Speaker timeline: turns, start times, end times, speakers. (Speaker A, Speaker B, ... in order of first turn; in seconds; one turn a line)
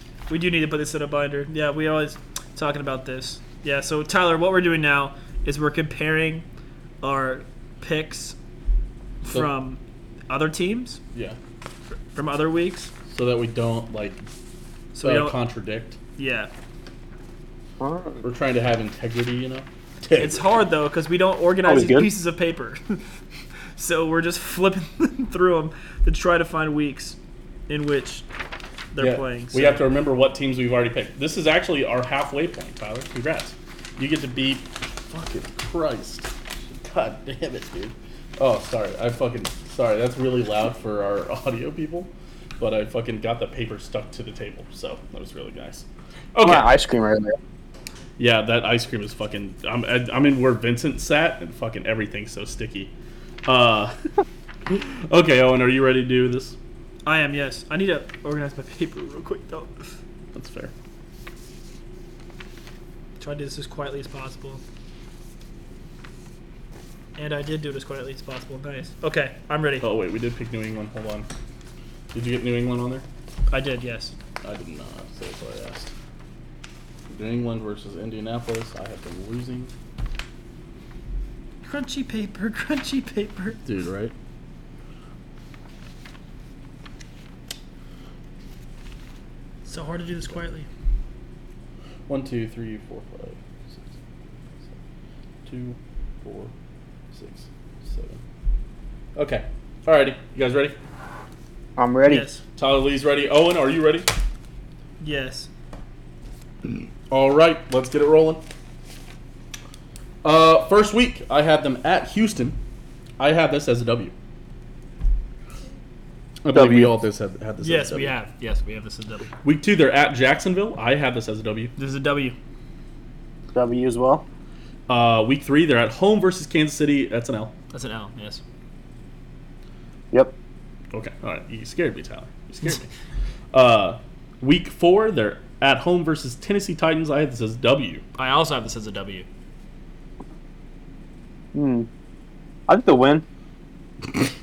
Speaker A: 0.3-6.5
Speaker A: 7.0-8.4
Speaker A: 9.2-11.0
Speaker A: 12.1-12.9
Speaker B: 13.1-14.2
Speaker A: 14.9-15.4
Speaker B: 15.0-16.0
Speaker A: 16.2-16.5
Speaker C: 17.8-18.2
Speaker B: 18.2-20.6
Speaker A: 20.2-23.0
Speaker C: 21.6-22.1
Speaker A: 23.8-27.2
Speaker A: 27.7-28.2
Speaker A: 28.9-29.9
Speaker B: 29.0-46.7
Speaker C: 46.4-47.4
Speaker B: 48.2-52.9
Speaker B: 53.4-54.0
Speaker B: 54.6-56.6
Speaker A: 57.0-60.0
Speaker B: 60.3-60.7
Speaker A: 63.2-64.6
Speaker A: 67.2-69.9
Speaker B: 69.8-71.3
Speaker B: 72.1-73.0
Speaker A: 73.5-74.1
Speaker B: 74.4-75.9
Speaker B: 77.1-79.7
Speaker A: 81.6-83.6
Speaker B: 83.6-84.1
Speaker A: 89.7-90.7
Speaker B: 92.1-93.9
Speaker B: 95.4-96.5
Speaker B: 97.1-98.2
Speaker B: 99.2-100.8
Speaker C: 101.8-102.3
Speaker A: 102.1-102.4
Speaker B: 102.6-104.1
Speaker A: 105.0-105.5
Speaker B: 107.1-108.4
Speaker B: 110.2-112.6
Speaker B: 113.2-114.1
Speaker B: 116.4-118.1
Speaker C: 116.5-116.9
Speaker A: 117.6-119.3
Speaker B: 119.4-121.7
Speaker A: 121.8-122.3
Speaker C: 123.5-124.2
Speaker B: 124.9-127.5
Speaker A: 127.7-128.4
Speaker B: 130.9-132.8
Speaker B: 133.5-138.0
Speaker A: 138.2-139.2
Speaker C: 141.5-141.9
Speaker C: 142.7-143.2